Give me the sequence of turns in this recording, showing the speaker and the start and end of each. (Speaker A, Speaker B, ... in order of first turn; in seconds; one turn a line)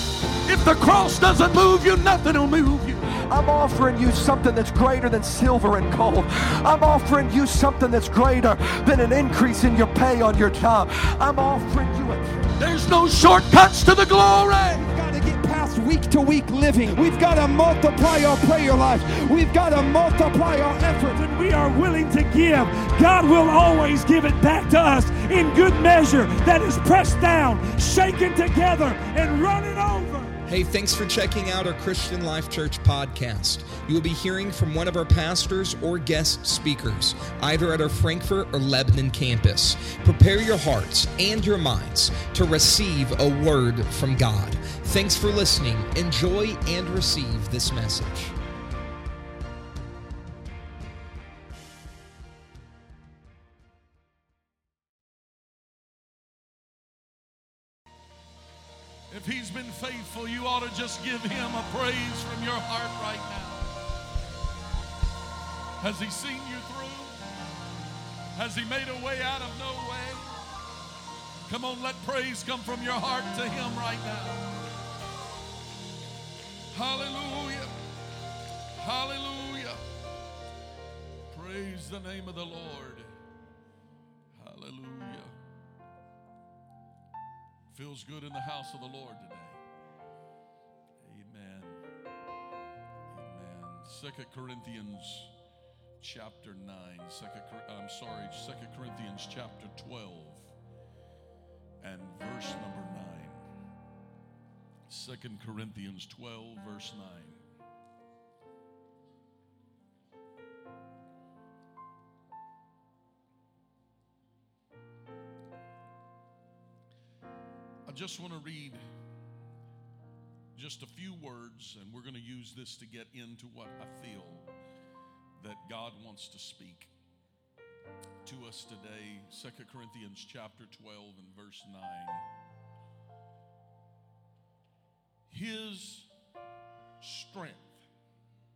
Speaker A: 0.4-3.1
Speaker B: 3.2-12.4
Speaker A: 12.6-14.8
Speaker B: 14.8-21.2
Speaker C: 21.1-30.4
Speaker D: 30.4-48.3
Speaker A: 59.1-63.7
Speaker A: 65.8-67.2
Speaker A: 68.3-70.3
Speaker A: 71.5-74.4
Speaker A: 76.7-77.7
Speaker A: 78.8-79.8
Speaker A: 81.3-83.1
Speaker A: 84.3-85.4
Speaker A: 87.7-89.6
Speaker A: 91.0-91.8
Speaker A: 93.1-95.3
Speaker A: 96.0-100.5
Speaker A: 101.8-103.5
Speaker A: 104.9-107.4
Speaker A: 117.8-118.8
Speaker A: 120.5-124.5
Speaker A: 125.4-126.9
Speaker A: 128.2-132.3
Speaker A: 135.3-136.1
Speaker A: 137.0-137.8